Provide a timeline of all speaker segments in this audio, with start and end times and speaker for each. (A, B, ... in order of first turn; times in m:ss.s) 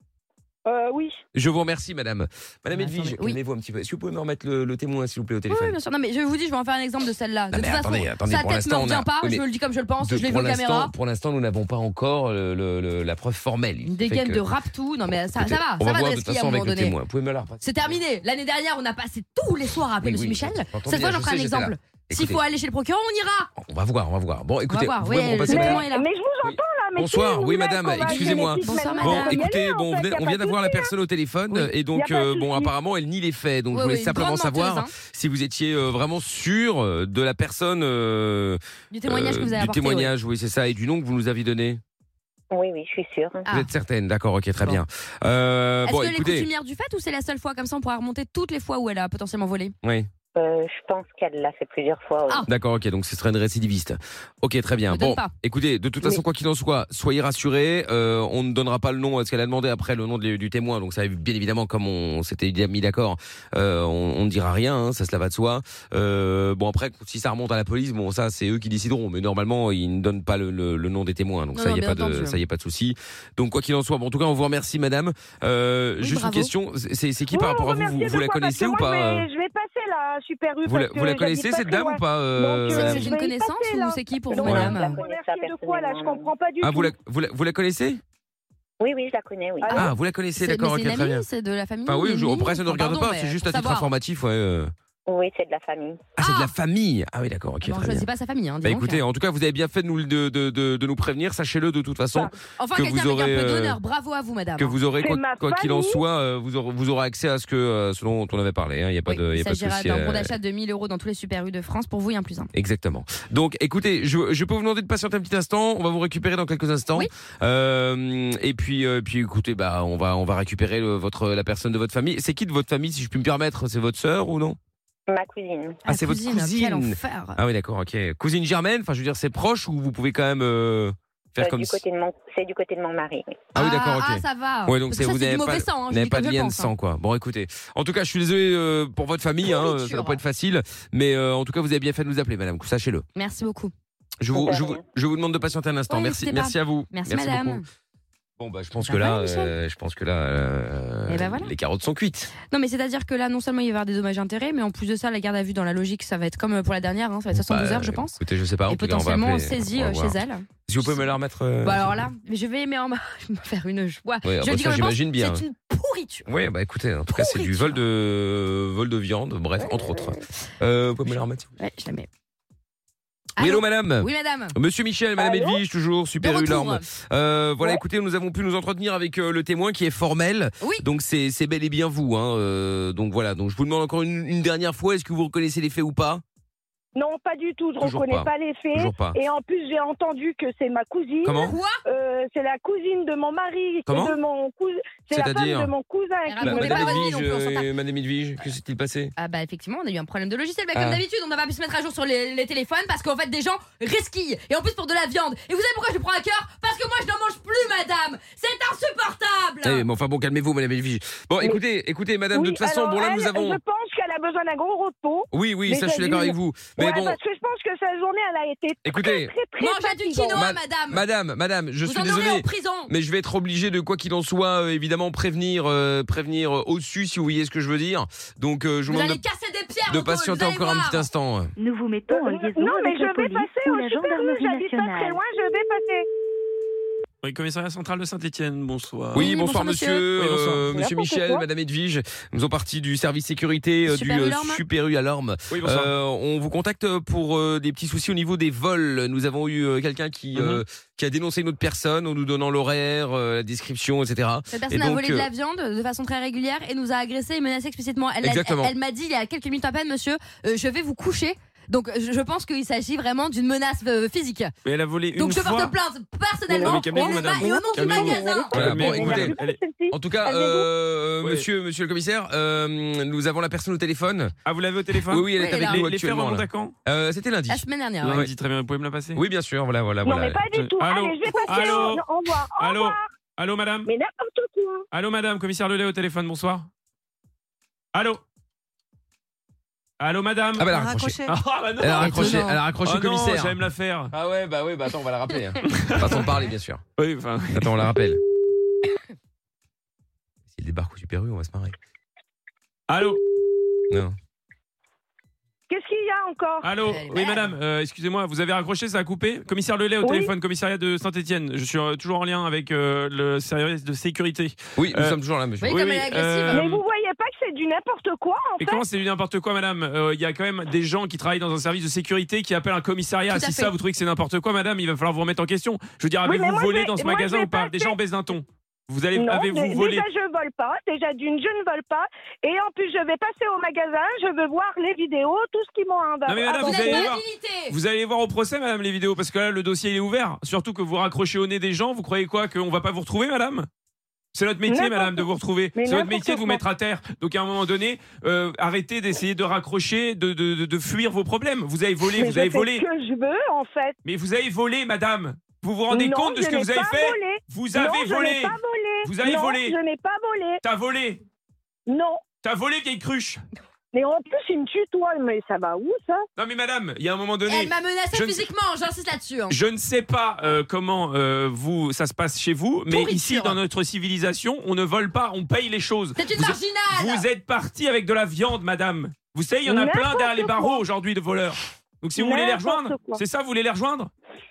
0:00.6-0:01.2 A
0:01.3-0:05.8 B
0:02.7-0:03.4 C
0:05.5-0:10.9 C
0:07.5-0:09.5 B
0:10.0-0:14.4 B
0:13.8-0:17.0 C
0:15.4-0:18.0 B
0:17.6-0:23.5 C
0:20.0-0:22.4 B
0:23.6-0:25.9 B
0:24.7-0:26.1 C
0:25.5-0:30.9 A
0:26.4-0:41.8 B
0:28.0-0:29.5 C
0:31.9-0:32.7 A
0:33.7-0:34.9 C
0:38.9-0:40.1 C
0:42.5-0:43.4 D
0:43.4-0:43.7 C
0:43.5-0:46.5 B
0:45.8-0:49.8 C
0:49.8-0:50.1 B
0:50.4-0:52.5 D
0:52.5-1:19.3 B
0:54.9-0:55.3 C
1:11.5-1:12.4 C
1:16.0-1:16.5 C
1:17.3-1:26.9 A
1:20.7-1:23.1 B
1:22.7-1:25.0 C
1:24.3-1:26.3 D
1:24.4-1:24.8 B
1:26.6-1:28.0 B
1:28.8-1:29.9 D
1:29.6-1:29.9 A
1:29.7-1:31.3 B
1:30.4-1:33.9 C
1:31.9-1:34.7 B
1:35.1-1:36.0 D
1:36.2-1:38.1 B
1:36.2-1:36.5 C
1:37.6-1:39.0 C
1:38.6-1:43.8 B
1:42.6-1:44.8 C
1:44.6-1:50.3 B
1:45.0-1:46.0 A
1:49.1-1:52.5 C
1:52.5-2:04.6 B
2:05.1-2:05.8 D
2:05.8-2:07.4 C
2:05.9-2:11.8 B
2:11.4-2:13.5 D
2:13.6-2:23.0 B
2:13.6-2:16.7 C
2:19.4-2:20.2 C
2:23.2-2:23.7 C
2:24.2-2:27.6 B
2:24.3-2:24.8 D
2:25.9-2:27.7 C
2:28.4-2:32.4 B
2:28.8-2:29.5 C
2:31.1-2:31.5 C
2:32.5-2:41.0 C
2:37.3-2:42.0 B
2:41.6-2:46.3 C
2:44.2-2:45.4 B
2:46.3-2:51.5 B
2:47.1-2:47.8 C
2:51.6-2:52.1 C
2:53.4-2:54.6 C
2:53.4-3:06.2 B
2:55.2-2:55.6 A
2:56.2-2:56.9 C
3:07.0-3:17.1 A
3:07.8-3:09.2 B
3:11.2-3:11.6 B
3:11.4-3:11.8 C
3:13.9-3:14.2 B
3:15.1-3:15.7 B
3:16.3-3:17.7 C
3:16.4-3:19.1 B
3:19.2-3:29.8 C
3:20.8-3:21.0 B
3:29.6-3:33.6 B
3:32.3-3:40.4 A
3:35.3-3:37.2 B
3:38.8-3:39.3 B
3:39.6-3:41.0 C
3:40.3-3:49.2 B
3:41.8-3:42.9 C
3:48.9-3:51.1 C
3:49.9-3:51.5 B
3:51.6-3:55.2 E
3:52.1-3:56.1 A
3:57.2-3:59.3 F
3:59.1-4:15.3 B
3:59.2-4:00.1 C
4:00.1-4:00.8 F
4:00.7-4:01.4 A
4:03.9-4:04.6 C
4:05.5-4:05.9 F
4:10.4-4:10.6 F
4:14.5-4:24.5 C
4:18.2-4:18.7 B
4:24.6-4:25.7 F
4:25.2-4:28.7 C
4:26.5-4:29.6 F
4:26.5-4:30.7 A
4:28.5-4:29.4 B
4:29.9-4:34.3 B
4:34.4-4:36.7 F
4:35.1-4:38.3 B
4:35.4-4:35.8 C
4:37.5-4:38.2 C
4:38.0-4:39.2 F
4:39.2-4:40.4 B
4:40.0-4:43.1 A
4:40.5-4:43.9 F
4:41.3-4:42.0 C
4:43.9-4:44.9 A
4:44.9-4:46.7 F
4:47.9-4:48.2 F
4:50.0-4:54.1 F
4:50.6-4:51.2 B
4:50.7-4:51.4 E
4:51.8-4:53.6 B
4:52.0-4:52.7 C
4:54.1-4:56.8 B
4:55.7-4:56.3 F
4:57.0-4:57.9 F
4:57.5-4:58.2 B
5:00.5-5:01.8 B
5:02.9-5:03.2 F
5:05.7-5:06.7 A
5:06.6-5:16.8 F
5:06.8-5:07.5 C
5:10.0-5:10.3 A
5:14.8-5:15.8 B
5:15.6-5:16.7 C
5:16.5-5:18.8 A
5:18.6-5:30.1 F
5:23.3-5:23.7 C
5:26.2-5:28.0 A
5:29.2-5:37.1 A
5:36.2-5:43.7 F
5:36.6-5:37.8 C
5:44.3-5:52.9 F
5:44.7-5:45.2 A
5:45.8-5:46.6 A
5:52.1-5:54.0 A
5:54.0-5:59.8 F
5:55.9-6:00.6 A
6:00.6-6:01.2 F
6:01.9-6:02.2 A
6:02.4-6:03.4 F
6:03.9-6:06.2 A
6:06.4-6:08.5 F
6:07.5-6:09.6 C
6:09.5-6:24.1 F
6:12.9-6:13.6 C
6:16.2-6:17.2 C
6:19.7-6:20.8 A
6:22.2-6:23.2 A